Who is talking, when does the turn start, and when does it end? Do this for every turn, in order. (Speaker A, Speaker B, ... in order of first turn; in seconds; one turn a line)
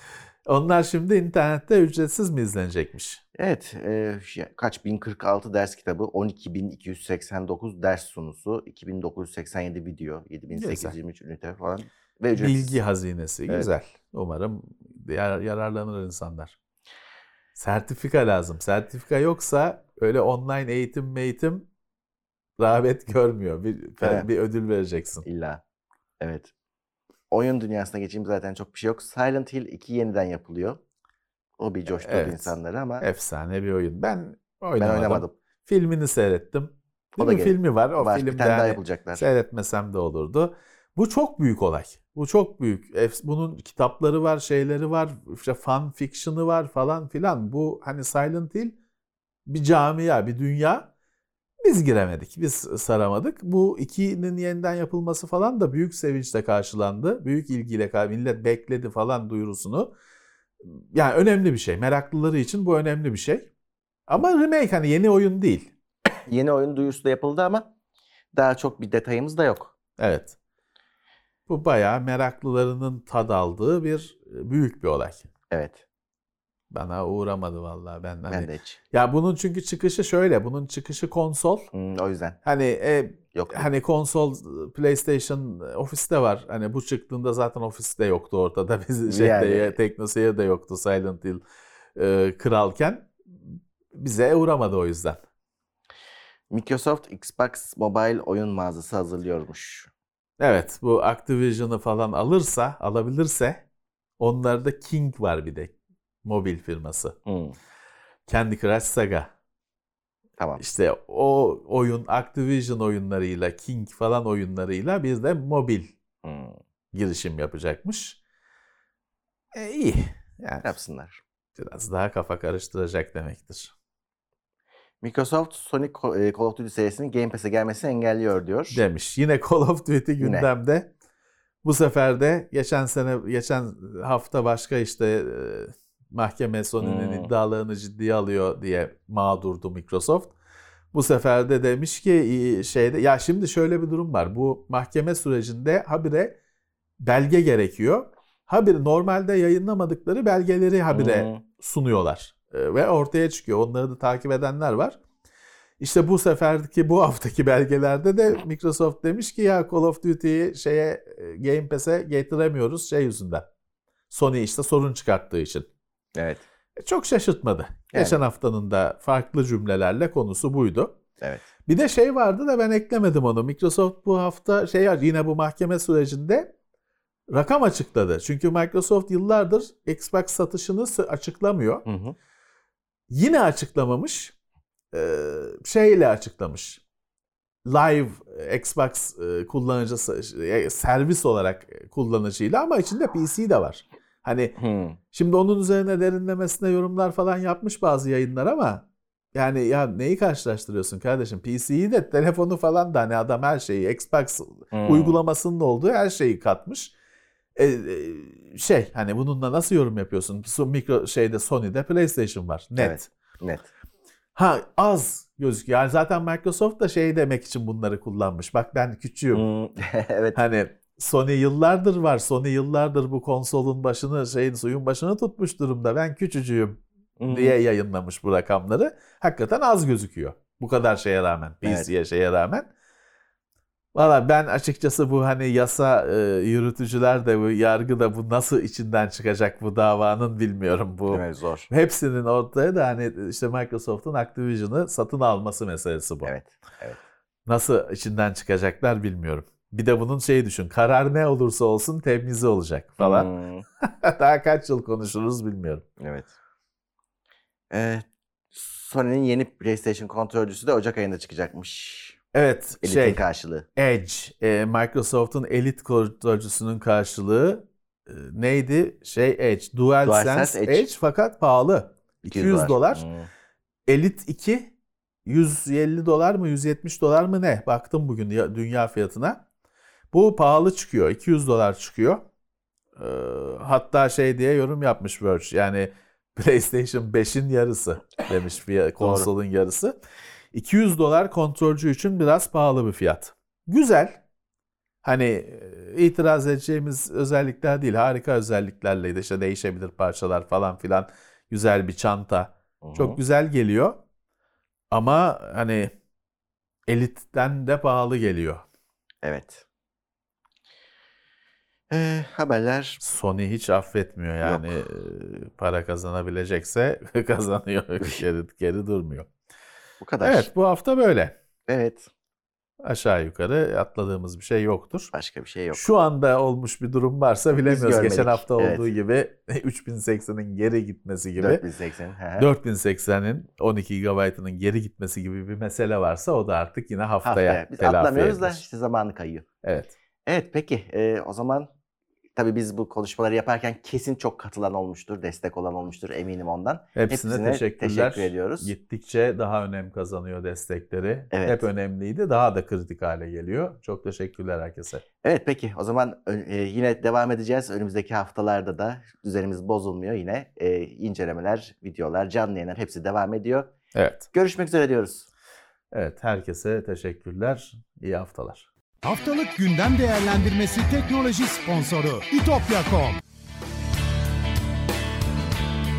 Speaker A: 0.5-3.2
Speaker B: 3.4-12.8
Speaker A: 10.5-10.9
Speaker A: 12.3-16.5
Speaker A: 17.5-21.7
Speaker A: 22.6-25.2
Speaker B: 24.0-24.3
Speaker B: 25.2-25.6
Speaker B: 26.2-26.5
Speaker B: 27.3-30.8
Speaker B: 31.6-33.0
Speaker A: 32.0-48.8
Speaker B: 34.8-35.3
Speaker B: 37.2-39.2
Speaker A: 49.5-50.9
Speaker A: 51.6-59.9
Speaker A: 60.6-63.5
Speaker A: 64.1-65.7
Speaker B: 66.3-67.7
Speaker B: 68.3-69.7
Speaker A: 70.0-70.3
Speaker A: 71.5-75.3
Speaker B: 75.5-75.8
Speaker A: 76.7-81.7
Speaker B: 78.3-78.8
Speaker B: 81.7-82.4
Speaker A: 82.4-91.4
Speaker B: 83.3-83.7
Speaker B: 89.1-89.8
Speaker A: 91.9-95.2
Speaker B: 96.5-99.9
Speaker A: 100.4-103.6
Speaker A: 104.2-107.2
Speaker B: 107.2-107.5
Speaker A: 108.3-109.3
Speaker A: 110.6-115.9
Speaker B: 116.2-116.6
Speaker A: 116.9-118.2
Speaker A: 119.5-120.7
Speaker B: 120.6-121.2
Speaker A: 121.6-123.7
Speaker B: 125.0-128.8
Speaker A: 128.7-130.9
Speaker B: 130.2-130.5
Speaker A: 131.6-140.3
Speaker B: 136.8-137.3
Speaker A: 140.9-146.4
Speaker A: 147.0-155.0
Speaker B: 150.9-151.4
Speaker A: 155.8-163.5
Speaker A: 164.1-165.7
Speaker B: 166.2-166.4
Speaker A: 166.8-170.9
Speaker B: 167.9-168.2
Speaker A: 171.7-176.5
Speaker A: 177.3-181.8
Speaker B: 181.8-182.1
Speaker A: 183.1-184.3
Speaker A: 184.9-186.8
Speaker A: 187.6-194.6
Speaker B: 194.6-195.0
Speaker A: 195.1-198.8
Speaker A: 199.3-206.9
Speaker B: 204.7-205.2
Speaker A: 207.6-213.1
Speaker B: 212.8-213.7
Speaker A: 214.3-219.4
Speaker B: 219.3-220.4
Speaker A: 220.3-232.7
Speaker B: 227.2-227.6
Speaker B: 231.6-231.9
Speaker A: 233.9-246.3
Speaker B: 241.1-241.7
Speaker B: 246.2-247.0
Speaker A: 247.4-253.3
Speaker B: 253.0-253.6
Speaker A: 253.8-255.8
Speaker B: 256.0-256.3
Speaker B: 257.7-262.2
Speaker A: 262.3-263.2
Speaker B: 262.8-263.6
Speaker A: 263.8-273.0
Speaker B: 270.0-270.9
Speaker B: 272.3-273.3
Speaker A: 273.9-274.7
Speaker A: 275.2-279.4
Speaker A: 280.1-282.2
Speaker A: 282.9-289.9
Speaker B: 289.0-289.3
Speaker A: 290.5-294.2
Speaker A: 295.0-304.0
Speaker B: 302.8-303.2
Speaker A: 304.9-305.9
Speaker A: 306.9-308.6
Speaker B: 309.2-309.6
Speaker B: 311.9-313.0
Speaker A: 313.0-319.3
Speaker B: 314.4-314.7
Speaker B: 320.0-320.5
Speaker A: 320.2-321.3
Speaker B: 321.7-322.1
Speaker A: 322.8-325.1
Speaker B: 325.1-325.8
Speaker A: 325.7-331.6
Speaker B: 327.6-328.9
Speaker B: 331.4-332.5
Speaker A: 332.4-338.6
Speaker B: 337.2-339.4
Speaker A: 339.6-339.9
Speaker B: 340.2-341.7
Speaker B: 342.4-348.7
Speaker A: 346.9-355.0
Speaker B: 351.3-351.6
Speaker B: 355.2-363.7
Speaker A: 363.9-364.3
Speaker B: 364.3-365.3
Speaker A: 365.9-368.7
Speaker C: 369.0-373.2